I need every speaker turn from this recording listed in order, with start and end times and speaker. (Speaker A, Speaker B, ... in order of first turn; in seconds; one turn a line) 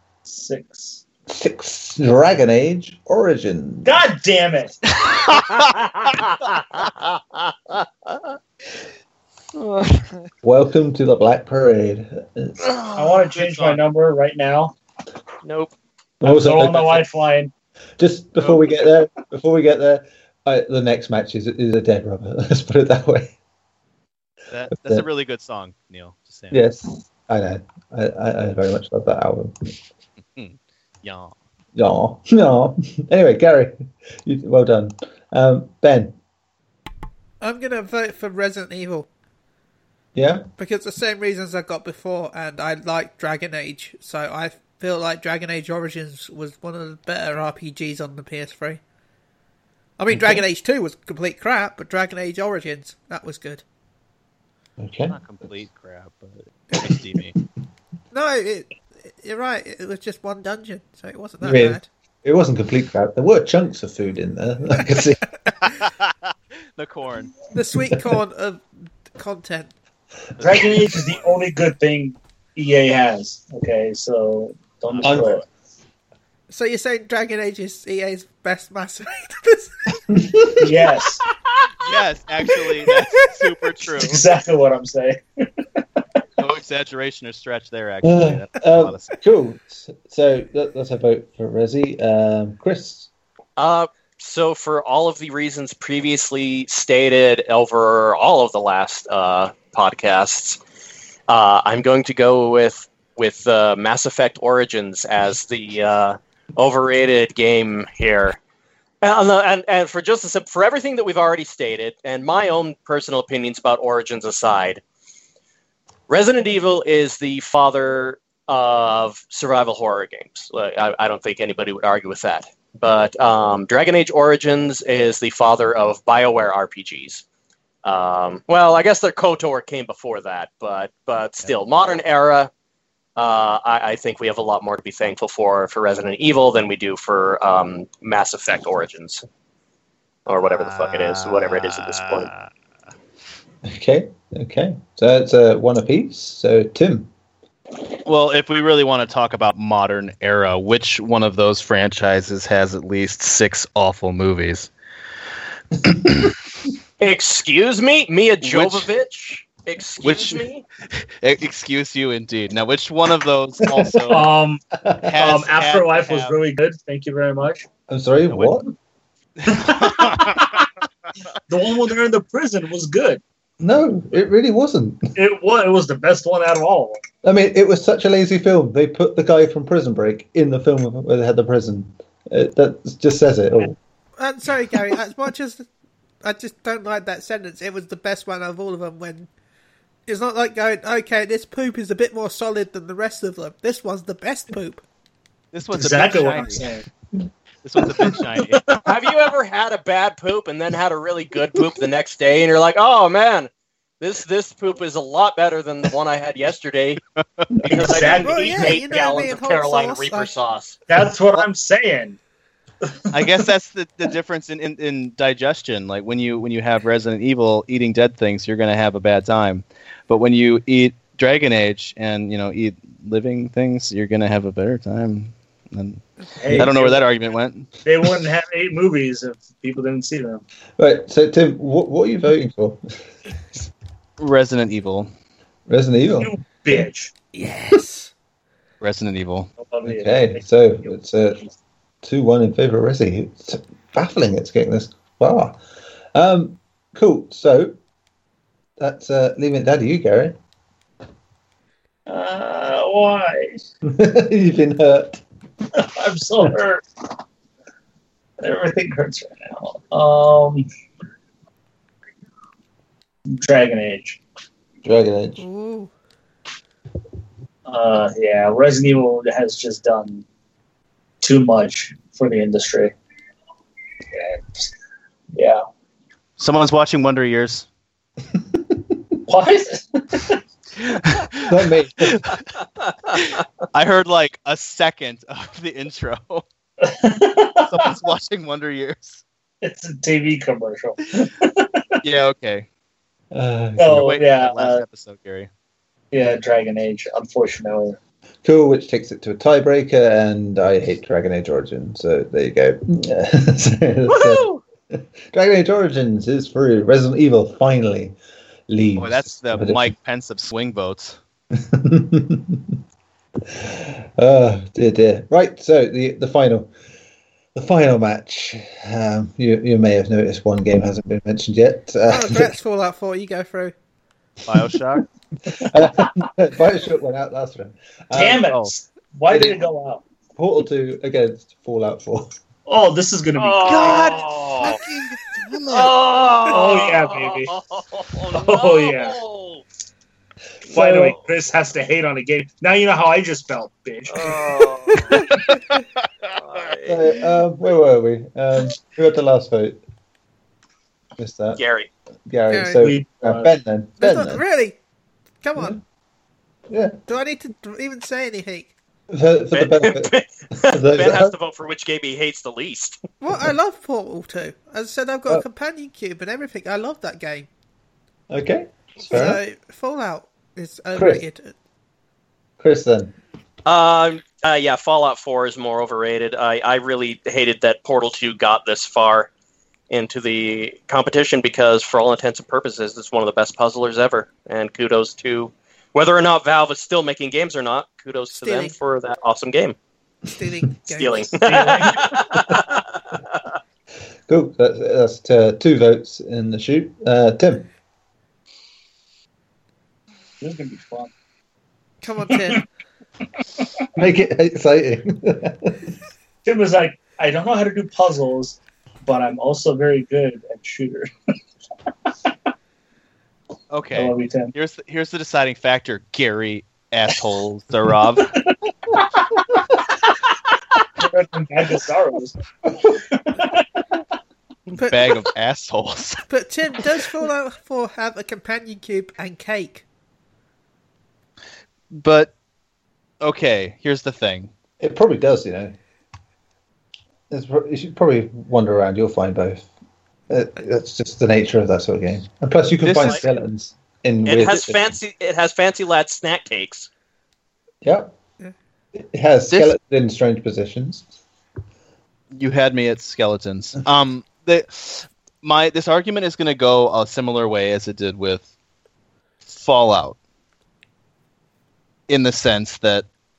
Speaker A: 0.2-1.0
Speaker B: 1.3-4.0
Speaker A: 3.8-4.8
Speaker C: 5.0-5.5
Speaker C: 9.5-10.3
Speaker B: 10.4-12.7
Speaker C: 12.8-13.8
Speaker A: 12.9-14.7
Speaker D: 15.4-15.7
Speaker B: 16.2-17.1
Speaker A: 16.2-17.5
Speaker B: 18.0-23.3
Speaker C: 24.5-26.6
Speaker B: 24.8-25.1
Speaker B: 26.5-29.7
Speaker C: 30.3-31.3
Speaker B: 31.7-33.7
Speaker B: 34.2-36.2
Speaker E: 37.4-39.1
Speaker B: 40.1-40.5
Speaker E: 40.6-48.8
Speaker E: 50.0-53.6
Speaker B: 50.1-50.4
Speaker B: 54.8-55.2
Speaker C: 55.1-57.3
Speaker E: 58.1-61.9
Speaker B: 61.4-65.2
Speaker C: 65.6-67.3
Speaker E: 67.5-69.7
Speaker C: 70.4-71.4
Speaker A: 70.4-75.5
Speaker B: 75.0-75.4
Speaker E: 76.5-80.2
Speaker B: 80.1-80.8
Speaker A: 80.6-81.2
Speaker C: 81.8-84.2
Speaker A: 83.9-85.8
Speaker C: 86.4-89.1
Speaker B: 88.0-93.1
Speaker D: 93.6-100.6
Speaker D: 101.3-108.4
Speaker D: 109.0-114.8
Speaker D: 116.1-127.2
Speaker D: 127.8-132.5
Speaker D: 133.2-139.2
Speaker D: 140.2-142.3
Speaker C: 140.4-142.5
Speaker B: 143.6-147.1
Speaker C: 148.0-154.7
Speaker D: 157.0-160.6
Speaker C: 158.4-158.9
Speaker C: 160.0-164.3
Speaker A: 164.1-164.6
Speaker B: 164.8-165.1
Speaker C: 165.0-166.3
Speaker A: 165.2-167.7
Speaker B: 167.9-168.7
Speaker C: 168.3-168.6
Speaker C: 169.4-170.6
Speaker A: 169.5-170.4
Speaker A: 171.5-173.2
Speaker B: 173.6-175.1
Speaker A: 175.2-177.0
Speaker B: 177.2-183.8
Speaker E: 184.2-185.7
Speaker E: 186.2-189.3
Speaker E: 190.1-194.8
Speaker C: 195.5-196.7
Speaker A: 195.7-196.8
Speaker C: 197.6-198.8
Speaker A: 198.5-198.9
Speaker D: 198.8-207.0
Speaker C: 207.2-208.1
Speaker D: 207.7-210.8
Speaker A: 207.7-209.0
Speaker E: 208.2-210.3
Speaker A: 210.9-212.2
Speaker C: 213.1-227.7
Speaker A: 226.4-227.0
Speaker A: 227.8-230.4
Speaker B: 230.8-233.0
Speaker C: 234.2-235.1
Speaker B: 235.7-236.3
Speaker A: 236.2-237.1
Speaker E: 237.3-238.1
Speaker C: 238.8-239.5
Speaker A: 239.6-240.4
Speaker B: 239.8-241.4
Speaker B: 242.0-245.6
Speaker B: 246.1-247.7
Speaker B: 248.8-250.3
Speaker A: 252.1-253.6
Speaker B: 253.8-255.2
Speaker A: 255.8-256.8
Speaker A: 258.4-260.6
Speaker A: 263.3-264.2
Speaker B: 264.8-265.4
Speaker E: 265.4-265.9
Speaker A: 267.6-270.2
Speaker A: 271.2-272.9
Speaker A: 274.1-274.7
Speaker A: 275.3-275.6
Speaker C: 276.4-277.7
Speaker A: 279.3-280.4
Speaker C: 280.8-282.5
Speaker B: 281.4-282.2
Speaker C: 283.1-286.4
Speaker A: 286.8-287.9
Speaker C: 287.7-289.2
Speaker A: 289.6-291.9
Speaker C: 292.0-292.7
Speaker B: 293.3-294.2
Speaker A: 293.8-294.8
Speaker C: 293.9-295.5
Speaker A: 296.1-298.0
Speaker B: 298.4-308.1
Speaker D: 304.1-304.6
Speaker B: 308.7-309.9
Speaker C: 309.0-311.2
Speaker B: 311.5-312.7
Speaker B: 313.5-316.7
Speaker B: 317.5-322.5
Speaker E: 322.1-323.7
Speaker C: 324.5-325.1
Speaker B: 325.5-328.4
Speaker A: 328.1-330.0
Speaker C: 328.4-328.7
Speaker B: 329.3-329.7
Speaker B: 330.4-332.3
Speaker A: 332.6-334.2
Speaker D: 333.4-334.8
Speaker C: 333.6-336.0
Speaker D: 335.7-339.6
Speaker A: 336.4-337.5
Speaker A: 338.3-339.2
Speaker B: 340.7-341.1
Speaker A: 340.7-344.4
Speaker D: 344.1-345.3
Speaker D: 346.3-347.2
Speaker B: 346.8-349.8
Speaker B: 351.2-351.6
Speaker D: 351.6-351.9
Speaker B: 352.3-354.4
Speaker E: 352.5-352.8
Speaker A: 352.8-353.5
Speaker E: 354.0-354.8
Speaker E: 355.4-355.8
Speaker B: 356.7-357.0
Speaker E: 357.1-358.7
Speaker B: 359.1-361.3
Speaker D: 359.5-363.0
Speaker E: 363.2-367.5
Speaker B: 368.3-369.4
Speaker E: 369.1-371.5
Speaker B: 370.9-371.2
Speaker B: 372.6-373.1
Speaker D: 373.6-379.3
Speaker D: 379.9-389.8
Speaker E: 388.3-388.7
Speaker E: 390.2-391.4
Speaker D: 390.9-393.4
Speaker A: 391.4-392.2
Speaker B: 394.3-397.7
Speaker A: 400.4-401.1
Speaker E: 402.0-402.6
Speaker B: 403.9-405.9
Speaker A: 406.4-411.1
Speaker C: 413.7-418.4
Speaker A: 413.9-414.5
Speaker A: 418.5-419.0
Speaker A: 421.0-423.6
Speaker C: 424.7-426.2
Speaker E: 424.8-425.1
Speaker E: 426.3-429.8
Speaker C: 431.9-432.3
Speaker C: 433.2-434.5
Speaker B: 434.8-435.8
Speaker B: 437.3-439.7
Speaker B: 440.3-444.9
Speaker C: 442.8-443.2
Speaker D: 444.2-446.9
Speaker B: 447.8-448.1
Speaker B: 448.9-451.1
Speaker C: 452.3-458.4
Speaker C: 459.4-460.2
Speaker C: 462.1-463.1